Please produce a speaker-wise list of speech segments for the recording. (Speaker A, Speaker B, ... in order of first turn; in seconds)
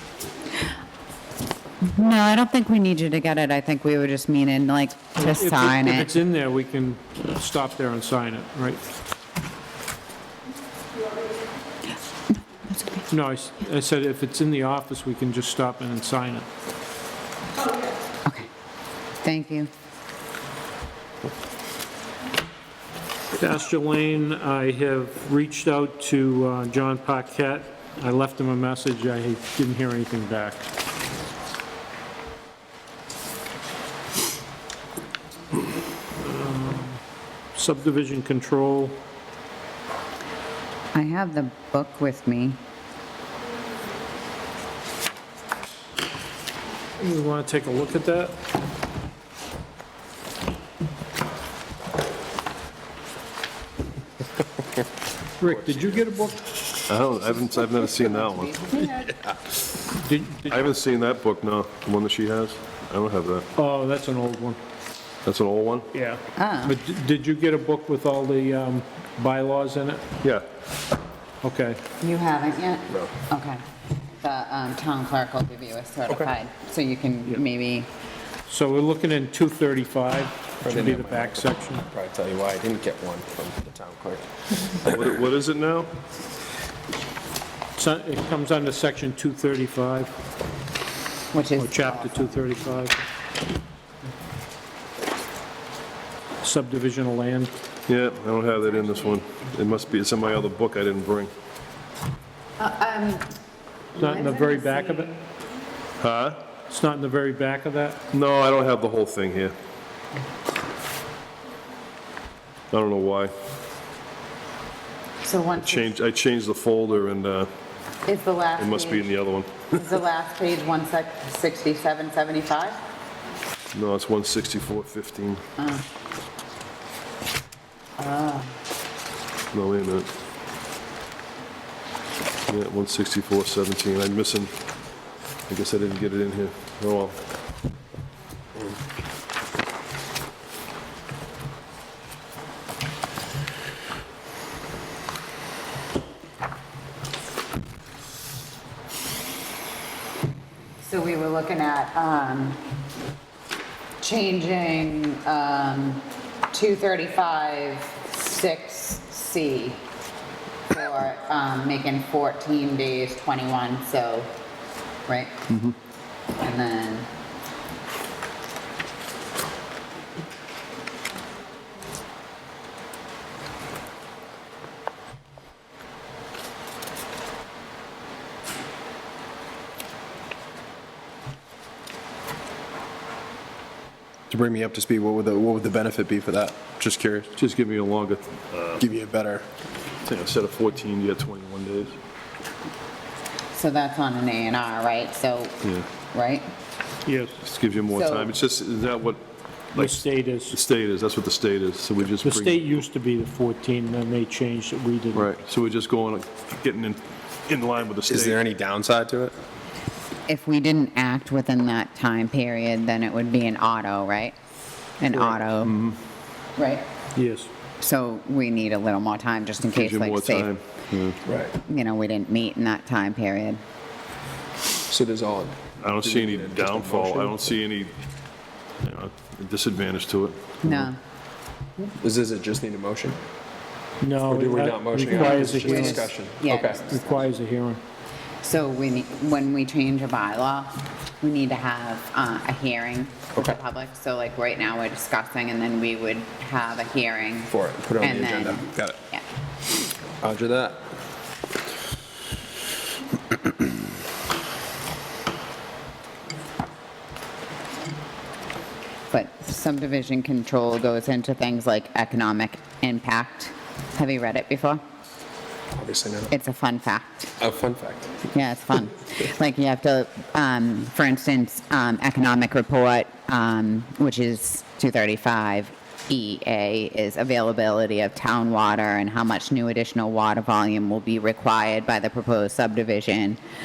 Speaker A: 1.8-6.1, 12.6-13.0, 19.2-19.7, 40.9-42.6, 57.8-59.1, 66.3-66.8, 72.0-73.6, 74.2-77.9, 91.3-92.3, 98.8-99.2, 102.6-103.3, 104.0-105.1, 115.2-115.9, 118.0-119.2, 119.7-122.8, 125.6-125.8, 128.0-128.6, 150.8-152.7, 154.0-159.8, 160.7-164.3, 165.1-165.5, 166.4-167.1, 193.5-195.6, 196.1-196.5, 197.9-198.3, 210.3-214.3, 215.0-215.7, 216.6-216.8, 217.8-220.5, 221.5-223.6, 230.6-231.0, 235.1-237.0, 238.4-249.2, 259.1-264.8, 266.3-267.3, 268.3-283.4
Speaker B: 5.2-8.8, 13.1-16.5, 23.4-30.6, 36.2-37.0, 37.5-39.0, 47.0-48.3, 55.4-56.5, 59.9-60.7, 63.5-64.6, 65.9-70.0, 71.4-71.8, 78.5-81.8, 87.8-90.1, 91.6-93.0, 96.4-97.5, 104.0-105.2, 106.7-108.0, 197.1-197.4, 199.7-200.6, 202.2-205.3, 217.2-217.5, 234.0-236.1, 236.8-237.8
Speaker C: 55.5-56.0, 58.8-59.4, 80.6-85.1, 184.3-187.3, 188.8-189.4, 208.1-209.3, 221.3-221.5, 224.9-227.3, 232.0-233.2, 234.3-237.2, 247.5-249.0, 250.2-250.8, 265.7-266.3, 267.4-268.2
Speaker D: 56.9-58.7, 60.5-63.5, 65.2-65.9, 84.9-85.9, 97.9-101.3, 106.0-106.4, 108.1-109.5, 112.7-113.3, 115.6-117.5, 118.6-119.8, 123.7-125.4, 129.5-130.1, 132.5-134.5, 135.5-137.2, 187.4-188.8, 190.1-192.0, 197.4-199.2, 199.7-202.6, 205.1-208.4, 215.6-216.0, 219.7-221.2, 225.8-227.9, 228.8-230.9